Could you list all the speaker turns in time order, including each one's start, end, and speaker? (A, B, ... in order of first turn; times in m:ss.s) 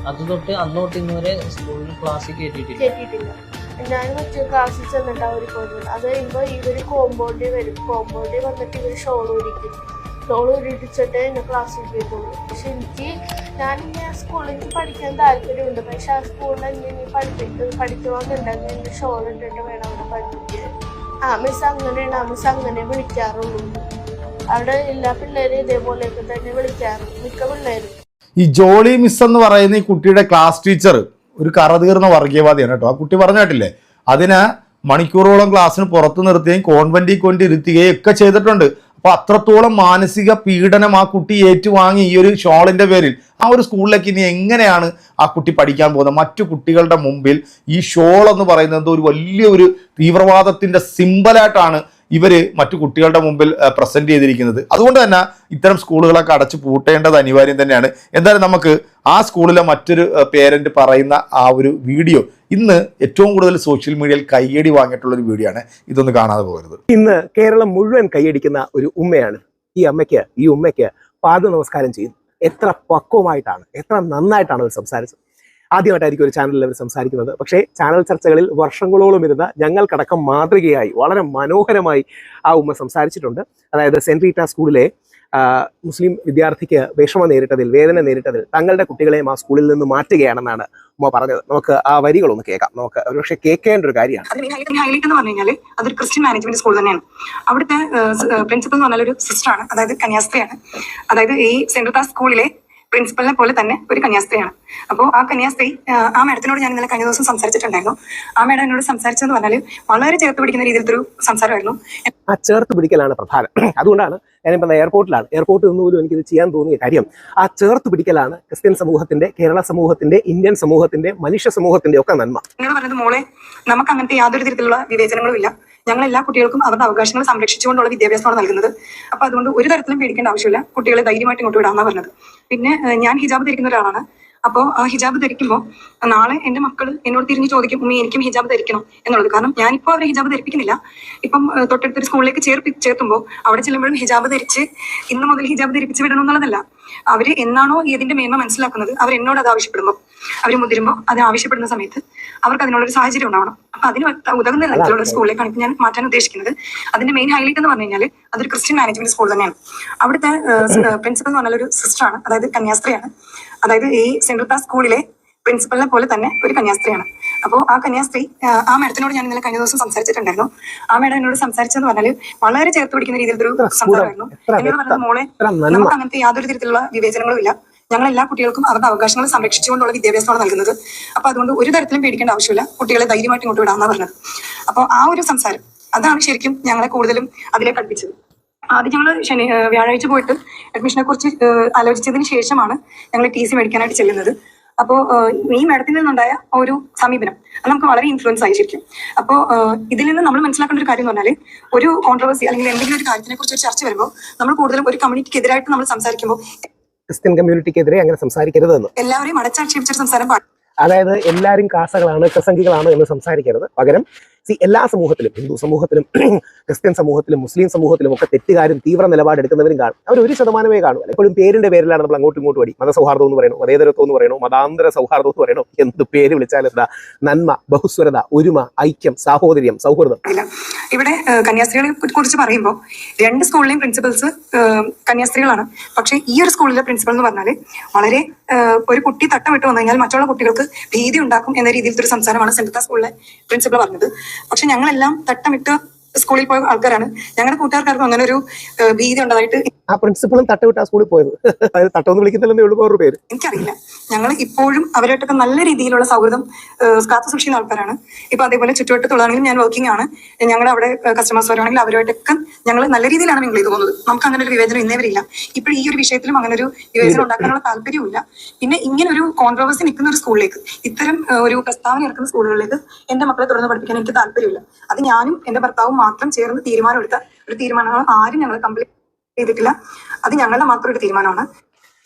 0:00.1-0:02.9 A
0:02.8-0:09.7 B
0:10.3-0:20.7 B
0:21.3-0:23.8 B
0:24.5-0:27.9 B
0:28.4-1:06.8 C
1:06.9-1:15.2 D
1:15.8-1:34.3 D
1:34.3-1:40.6 E
1:41.1-1:52.1 E
1:52.3-2:02.4 D
2:02.6-2:43.1 E
2:34.7-2:35.2 D
2:43.6-3:04.1 E
2:53.6-2:56.0 D
3:04.7-3:08.1 E
3:08.8-3:26.7 E
3:27.1-3:28.9 D
3:29.0-3:30.4 E
3:30.8-3:50.2 D
3:50.2-4:09.7 E
4:09.9-4:13.2 D
4:13.3-4:38.9 E
4:27.0-4:27.3 D
4:39.4-4:41.4 E